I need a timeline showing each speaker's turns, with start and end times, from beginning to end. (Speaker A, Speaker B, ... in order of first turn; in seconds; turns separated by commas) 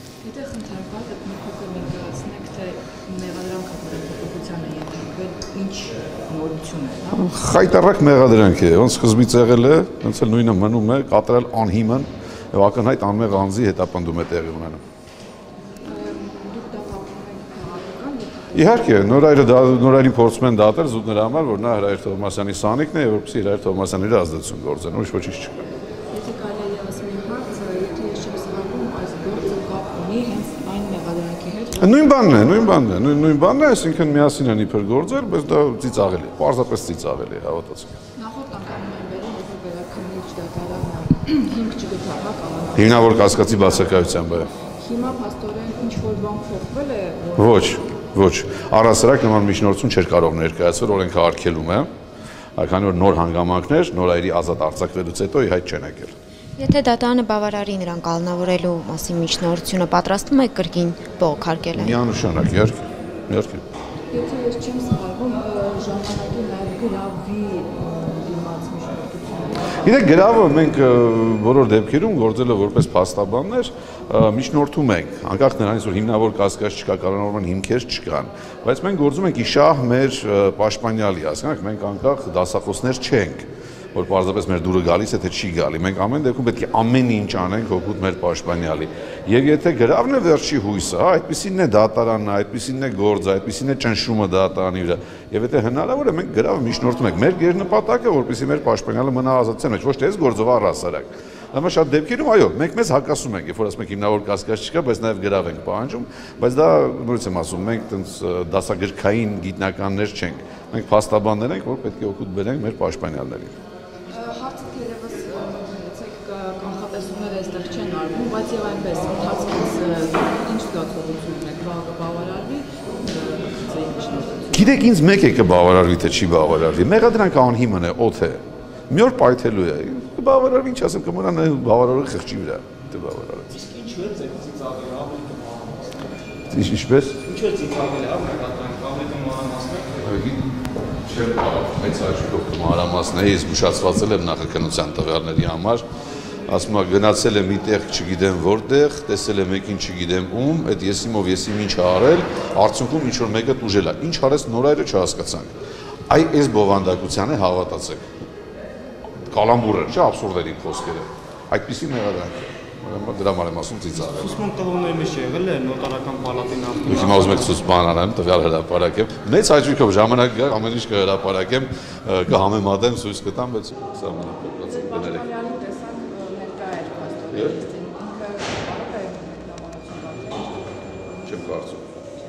Speaker A: 0.2-7.3, Speaker B: 7.1-14.8, Speaker A: 15.8-19.2, Speaker B: 18.5-25.6, Speaker A: 26.1-32.5, Speaker B: 31.8-38.0, Speaker A: 38.1-44.1, Speaker B: 42.8-44.5, Speaker A: 44.8-47.6, Speaker B: 47.4-51.9, Speaker B: 52.6-56.1, Speaker C: 56.6-62.0, Speaker B: 61.7-63.6, Speaker A: 64.1-70.0, Speaker B: 69.8-113.5, Speaker A: 114.1-124.8, Speaker B: 124.5-133.6, Speaker D: 133.5-136.2, Speaker B: 136.5-137.2, Speaker D: 137.2-140.1, Speaker B: 140.0-140.5, Speaker B: 141.0-145.8, Speaker B: 146.5-155.5, Speaker B: 156.1-158.0, Speaker B: 159.3-164.4, Speaker D: 163.9-167.5, Speaker B: 166.9-175.3, Speaker A: 174.7-181.3, Speaker B: 181.3-181.9